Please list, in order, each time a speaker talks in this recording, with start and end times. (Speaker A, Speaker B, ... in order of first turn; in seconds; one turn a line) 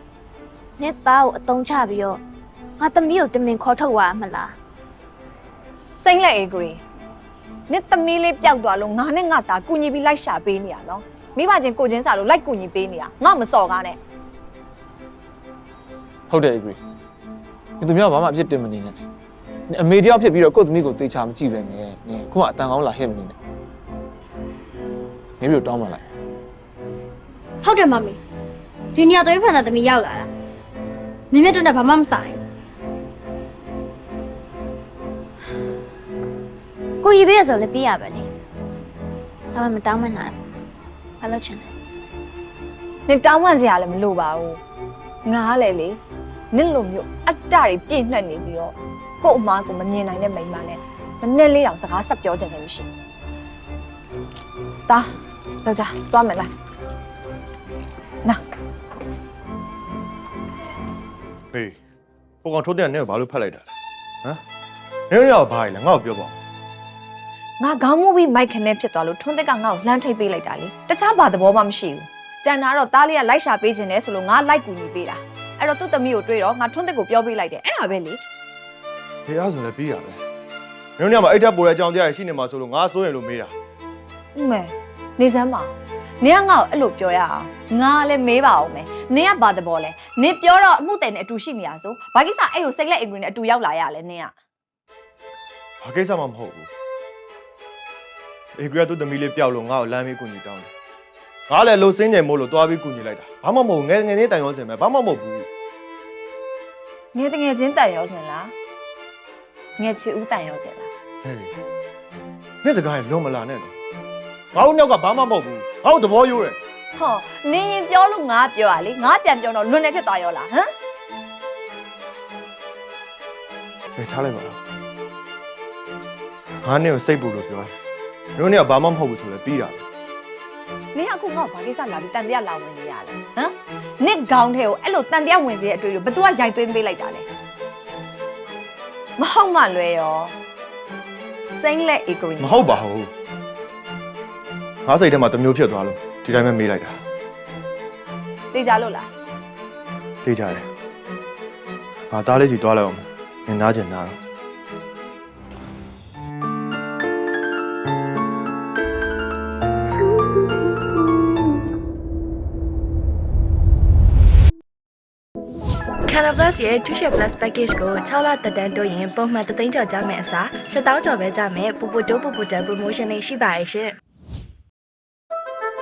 Speaker A: 0.8-2.2
Speaker A: 2.8-4.5
Speaker B: 5.9-6.8
Speaker B: 7.7-14.0
Speaker C: 16.3-16.8
Speaker C: 17.8-19.0
Speaker C: 19.7-23.4
Speaker C: 25.4-26.0
Speaker D: 27.6-28.2
Speaker D: 28.9-30.3
Speaker D: 31.3-32.4
Speaker A: 37.0-38.3
Speaker A: 39.5-40.3
Speaker A: 41.2-41.7
Speaker B: 43.1-44.6
Speaker B: 45.2-46.0
Speaker B: 46.5-52.9
Speaker B: 55.6-56.5
Speaker E: 62.4-63.7
Speaker E: 65.1-66.3
Speaker B: 67.6-78.2
Speaker E: 79.3-80.2
Speaker E: 81.0-83.5
Speaker B: 84.3-94.3
Speaker E: 95.8-96.7
Speaker E: 98.5-100.7
Speaker E: 101.5-105.5
Speaker B: 107.1-108.5
Speaker B: 109.8-110.9
Speaker E: 111.2-111.5
Speaker E: 112.6-113.7
Speaker E: 114.5-116.6
Speaker B: 117.0-120.7
Speaker E: 124.0-124.6
Speaker E: 126.6-127.7
Speaker E: 128.3-129.8
Speaker B: 130.9-137.2
Speaker B: 139.2-140.3
Speaker B: 141.5-142.8
Speaker E: 142.4-143.1
Speaker E: 144.8-147.0
Speaker B: 148.5-149.1
Speaker E: 150.2-150.7
Speaker E: 152.1-154.2
Speaker F: 166.1-173.9